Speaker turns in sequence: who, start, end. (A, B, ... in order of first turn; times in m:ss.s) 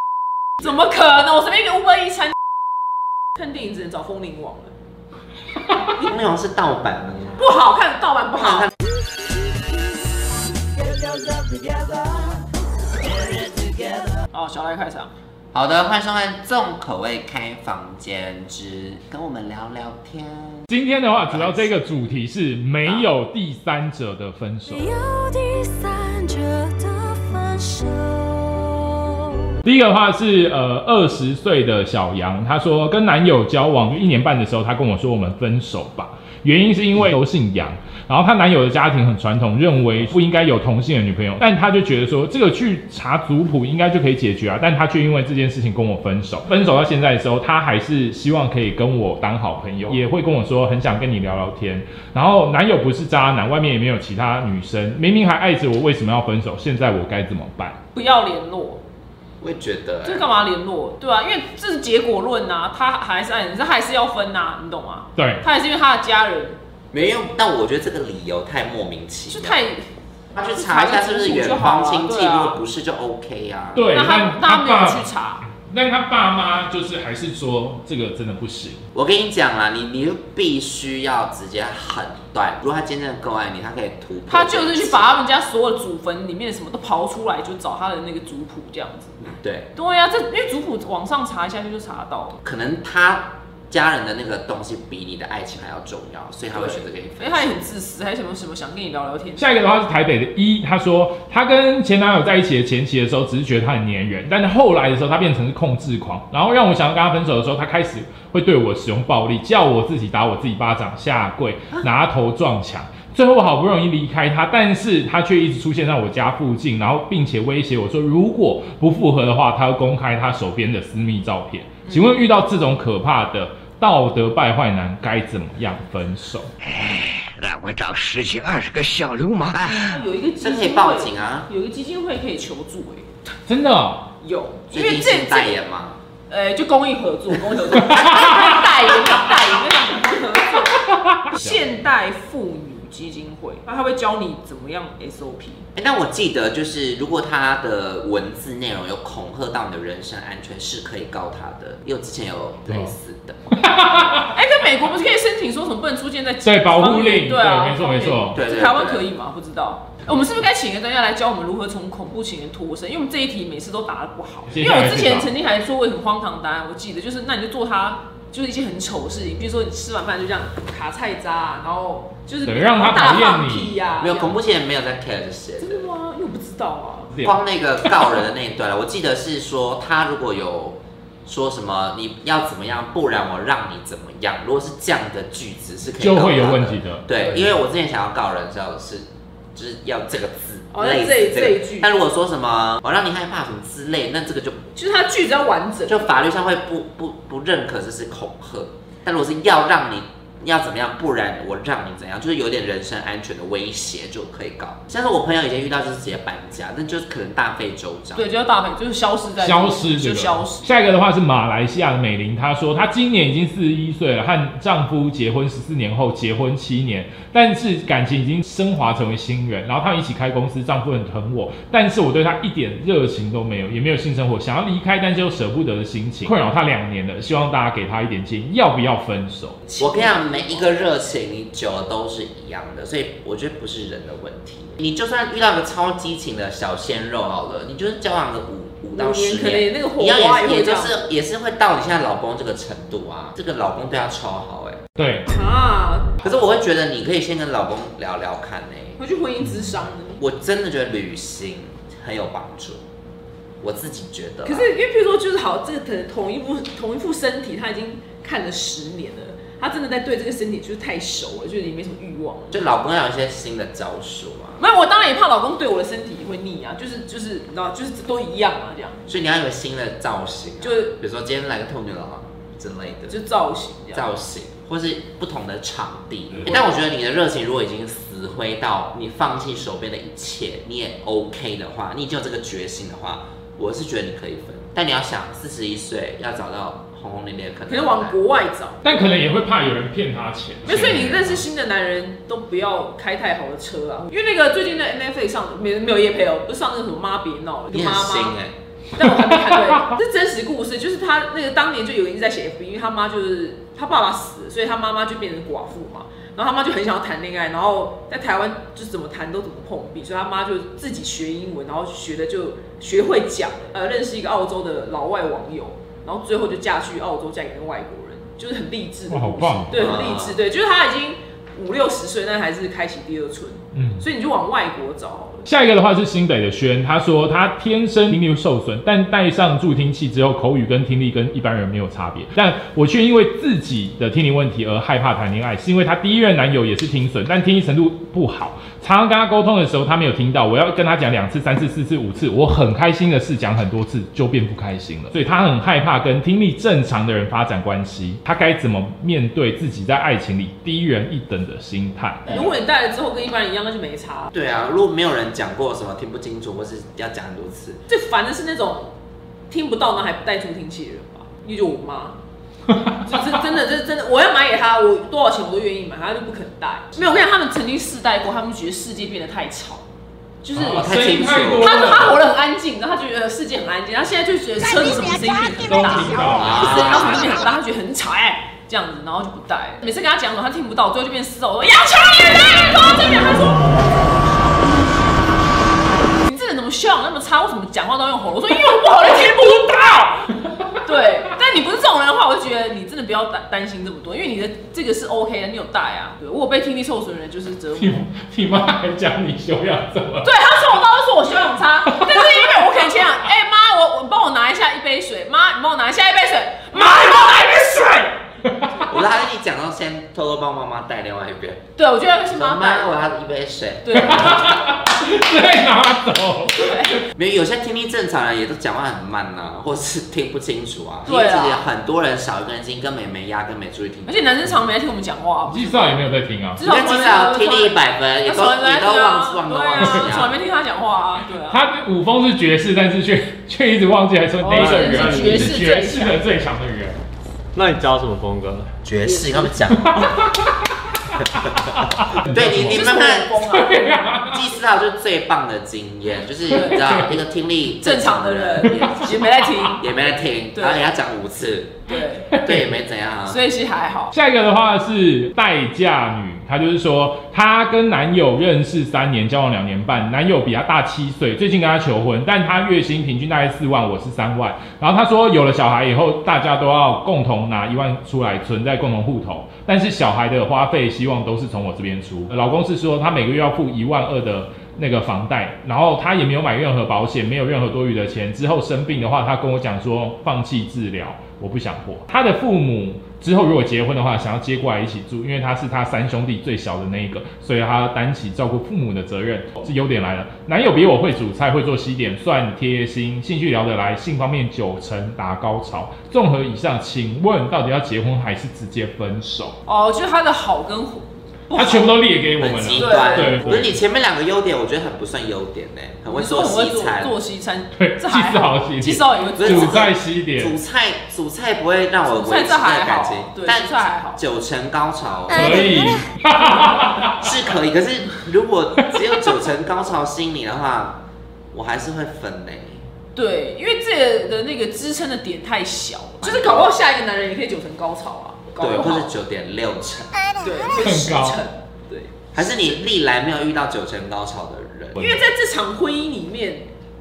0:00.6-0:02.3 A
0:03.4-0:04.7 A
0:06.0-0:07.4 B
0:07.4-0:08.7 A
0:14.3-0:15.1 A
0:15.5-0:21.8 B
0:20.7-0:24.9 C
0:22.8-0:23.1 B
0:24.7-0:29.5 D
0:29.6-0:57.8 C
0:57.9-0:58.8 A
0:59.4-1:00.3 B
1:00.0-1:06.6 A
1:05.2-1:05.4 C
1:06.9-1:09.7 B
1:09.3-1:09.8 A
1:10.3-1:13.8 B
1:10.4-1:12.6 A
1:13.7-1:18.8 C
1:13.9-1:15.4 A
1:18.9-1:25.1 B
1:24.3-1:29.2 A
1:29.3-1:29.7 B
1:29.7-1:32.4 A
1:32.4-1:37.7 B
1:36.5-1:39.4 A
1:39.4-2:06.5 C
2:01.9-2:02.2 A
2:06.6-2:10.0 E
2:09.6-2:13.4 A
2:10.4-2:11.5 B
2:13.5-2:14.1 C
2:14.2-2:15.5 A
2:14.7-2:16.0 B
2:16.3-2:25.6 A
2:17.9-2:18.6 C
2:20.9-2:21.6 C
2:25.8-2:33.5 B
2:33.5-2:34.3 C
2:34.3-2:54.4 A
2:36.4-2:38.4 C
2:38.3-2:39.1 B
2:44.5-2:45.3 C
2:52.4-2:53.7 C
2:54.0-2:55.8 B
2:55.6-2:57.2 A
2:57.2-3:14.6 B
3:06.0-3:07.4 C
3:10.7-3:11.9 A
3:14.7-3:16.1 A
3:15.9-3:28.3 B
3:28.1-3:30.7 A
3:29.4-3:49.6 C
3:49.6-3:50.8 A
3:49.8-4:04.8 B
3:58.9-4:01.0 A
4:05.0-4:05.3 C
4:05.3-4:06.2 A
4:06.2-4:09.0 B
4:09.0-4:10.2 A
4:10.2-4:12.8 B
4:13.6-4:14.7 B
4:14.4-4:22.7 A
4:22.5-4:24.6 B
4:24.6-4:29.0 A
4:29.1-4:33.2 B
4:30.6-4:30.9 A
4:33.1-4:34.1 A
4:33.9-4:48.2 B
4:47.7-4:49.0 A
4:48.8-4:51.4 C
4:50.6-4:58.4 A
4:57.7-4:58.5 B
4:58.9-5:25.5 A
4:59.0-5:00.0 C
5:19.1-5:19.9 C
5:19.7-5:20.4 B
5:23.7-5:24.0 C
5:25.4-5:52.3 C
5:52.2-5:52.5 B
5:52.2-5:54.3 A
5:54.3-5:57.8 B
5:57.9-5:58.9 A
5:59.5-6:02.2 A
6:02.7-6:03.2 C
6:03.0-6:09.9 A
6:10.4-6:24.1 A
6:10.5-6:12.2 C
6:10.6-6:11.7 B
6:15.5-6:17.2 C
6:16.3-6:17.2 B
6:26.2-6:30.3 A
6:30.4-6:30.7 C
6:30.8-6:38.1 A
6:37.8-6:40.3 C
6:40.2-6:48.2 A
6:41.9-6:42.7 C
6:48.4-6:48.8 C
6:48.9-6:51.6 B
6:51.8-6:53.1 A
6:52.3-6:54.4 B
6:53.8-6:54.6 A
6:53.9-6:56.9 C
6:56.6-6:57.0 A
6:57.1-7:04.5 B
7:01.0-7:01.6 A
7:04.0-7:06.0 A
7:05.4-7:06.6 C
7:06.6-7:11.6 A
7:06.6-7:10.4 B
7:09.8-7:10.2 C
7:11.4-7:17.0 C
7:14.4-7:16.2 A
7:14.5-7:15.6 F
7:17.5-7:18.7 F
7:18.8-7:20.2 B
7:19.0-7:19.5 A
7:19.8-7:22.8 C
7:22.2-7:23.3 B
7:22.5-7:24.2 A
7:23.4-7:24.4 C
7:24.3-7:29.2 B
7:26.5-7:26.9 A
7:26.6-7:27.2 C
7:27.8-7:30.0 A
7:28.6-7:29.7 C
7:29.8-7:31.8 B
7:30.5-7:30.9 A
7:31.9-7:32.4 A
7:32.3-7:32.7 C
7:32.4-7:33.4 B
7:33.2-7:34.1 A
7:34.1-8:19.6 C
8:19.6-8:22.0 A
8:21.5-8:23.8 C
8:22.4-8:27.1 B
8:22.7-8:23.6 A
8:26.1-8:29.9 A
8:27.8-8:30.6 C
8:29.4-8:35.9 B
8:32.1-8:34.2 A
8:35.3-8:37.3 C
8:37.2-8:42.8 B
8:43.1-8:49.1 A
8:46.2-8:46.7 B
8:48.6-8:50.2 B
8:50.4-8:52.6 A
8:50.8-8:51.4 C
8:52.3-8:55.2 B
8:55.0-8:56.7 A